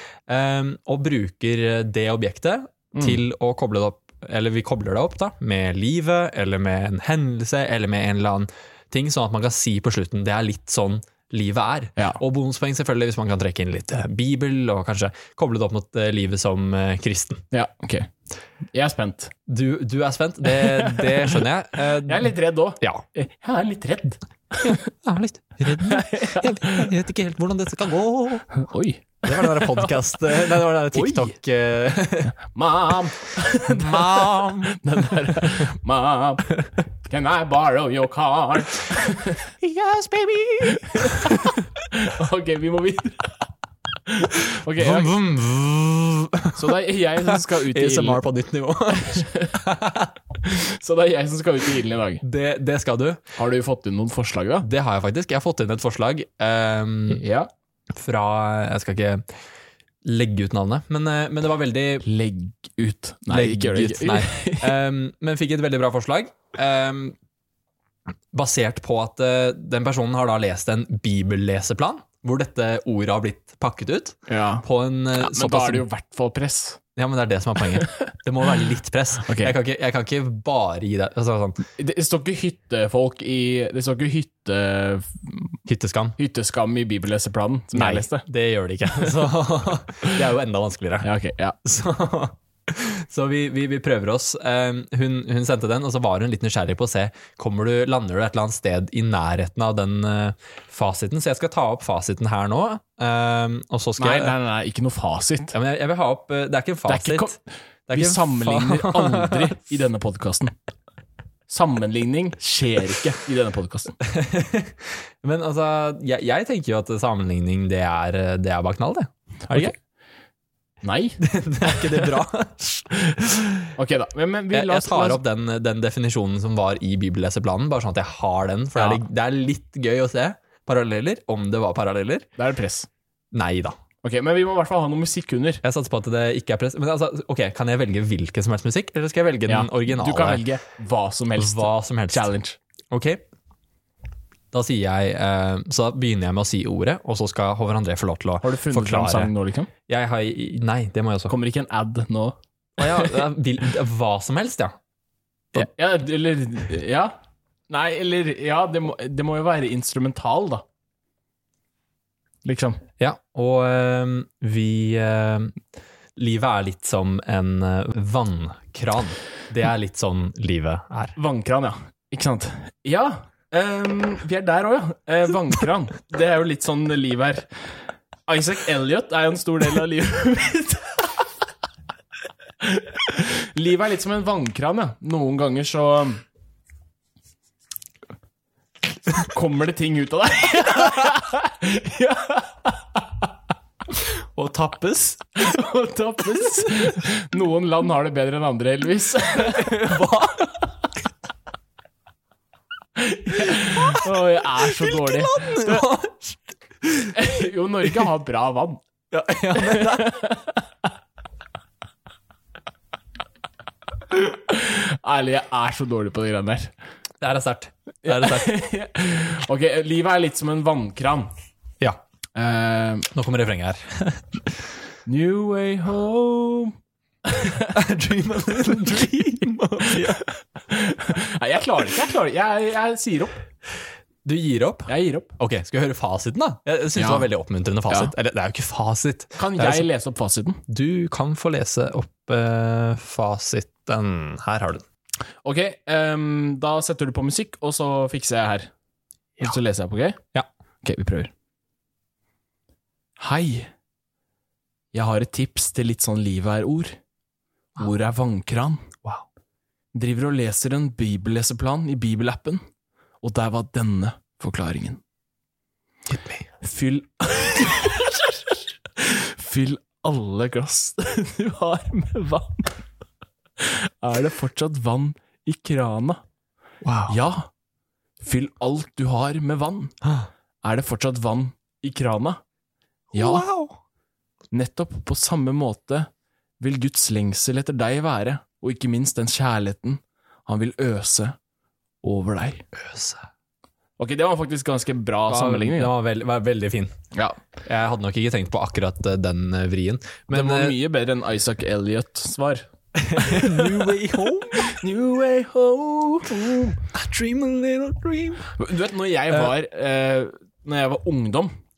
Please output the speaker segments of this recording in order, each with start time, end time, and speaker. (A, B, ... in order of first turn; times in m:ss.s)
0:00.3-0:17.4 A
0:02.9-0:03.2 B
0:17.5-0:18.1 B
0:18.7-0:19.3 B
0:19.5-0:23.0 A
0:20.4-0:24.8 B
0:24.6-0:28.6 A
0:25.8-0:26.9 B
0:28.5-0:31.3 B
0:29.2-0:32.4 A
0:32.4-0:39.5 B
0:33.7-0:35.6 A
0:39.6-0:41.6 A
0:40.7-0:43.4 B
0:44.1-0:45.1 B
0:44.8-0:46.7 A
0:46.6-0:48.2 B
0:47.3-0:50.1 A
0:49.0-0:49.6 B
0:50.4-0:52.2 B
0:52.2-0:53.2 A
0:53.4-0:54.7 B
0:54.6-0:57.2 A
0:57.1-0:57.5 B
0:57.9-0:59.2 A
1:00.0-1:02.0 A
1:02.0-1:04.8 B
1:03.3-1:07.2 A
1:08.3-1:15.8 A
1:14.3-1:16.8 B
1:17.0-1:21.6 A
1:17.7-1:18.6 B
1:19.2-1:19.6 B
1:21.8-1:25.6 B
1:25.7-1:26.2 A
1:26.2-1:28.3 B
1:27.7-1:31.1 A
1:31.0-1:31.6 B
1:31.6-1:44.4 A
1:44.0-1:45.6 B
1:45.5-1:47.4 A
1:46.9-1:47.4 B
1:47.9-1:49.6 A
1:47.9-1:50.5 B
1:51.5-1:54.0 B
1:54.0-1:59.7 A
1:59.5-1:59.7 B
2:00.8-2:01.9 B
2:01.2-2:03.7 A
2:03.8-2:05.2 B
2:04.5-2:12.3 A
2:08.8-2:09.0 B
2:12.4-2:12.9 B
2:13.3-2:13.8 A
2:14.0-2:15.6 B
2:15.6-2:20.4 A
2:19.5-2:22.6 B
2:21.4-2:22.3 A
2:22.9-2:23.2 A
2:24.5-2:29.3 A
2:28.4-2:29.7 B
2:29.9-2:31.3 A
2:31.3-2:33.2 B
2:32.8-2:34.7 A
2:35.5-2:37.1 B
2:37.7-2:40.6 B
2:42.4-2:42.8 B
2:43.0-2:45.5 A
2:46.2-2:51.1 A
2:51.2-2:57.6 B
2:58.3-3:01.1 B
3:02.6-3:06.2 B
3:09.1-3:13.0 B
3:14.0-3:15.2 A
3:15.4-3:20.2 B
3:19.5-3:20.4 A
3:23.0-3:25.9 B
3:23.6-3:24.1 A
3:24.6-3:27.2 A
3:27.1-3:28.8 B
3:29.1-3:30.2 A
3:29.5-3:30.6 B
3:34.1-3:36.7 B
3:37.2-3:38.6 A
3:38.0-3:41.3 B
3:42.4-3:43.1 B
3:43.1-3:44.4 A
3:45.1-3:47.8 B
3:47.7-3:50.2 A
3:50.7-3:53.4 B
3:54.2-3:59.9 A
3:54.9-3:55.4 B
3:57.0-3:57.3 B
3:59.4-4:00.6 B
4:00.7-4:04.8 A
4:05.4-4:08.7 B
4:09.4-4:10.2 B
4:10.8-4:11.3 B
4:13.2-4:13.7 B
4:14.9-4:17.0 B
4:17.8-4:18.9 B
4:19.9-4:22.6 B
4:23.2-4:25.0 B
4:26.1-4:26.4 A
4:26.6-4:32.8 B
4:33.6-4:36.2 B
4:36.8-4:37.2 A
4:37.1-4:37.5 B
4:38.2-4:40.0 B
4:40.6-4:42.4 B
4:43.1-4:43.8 A
4:43.1-4:43.5 B
4:44.5-4:46.1 B
4:46.6-4:51.4 B
4:52.0-4:52.6 B
4:52.7-4:53.3 A
4:54.0-4:55.9 B
4:55.3-4:56.9 A
4:57.1-4:57.4 B
4:57.6-5:00.8 A
5:00.3-5:04.0 B
5:03.0-5:04.8 A
5:04.5-5:06.8 B
5:06.9-5:08.5 A
5:08.6-5:11.5 B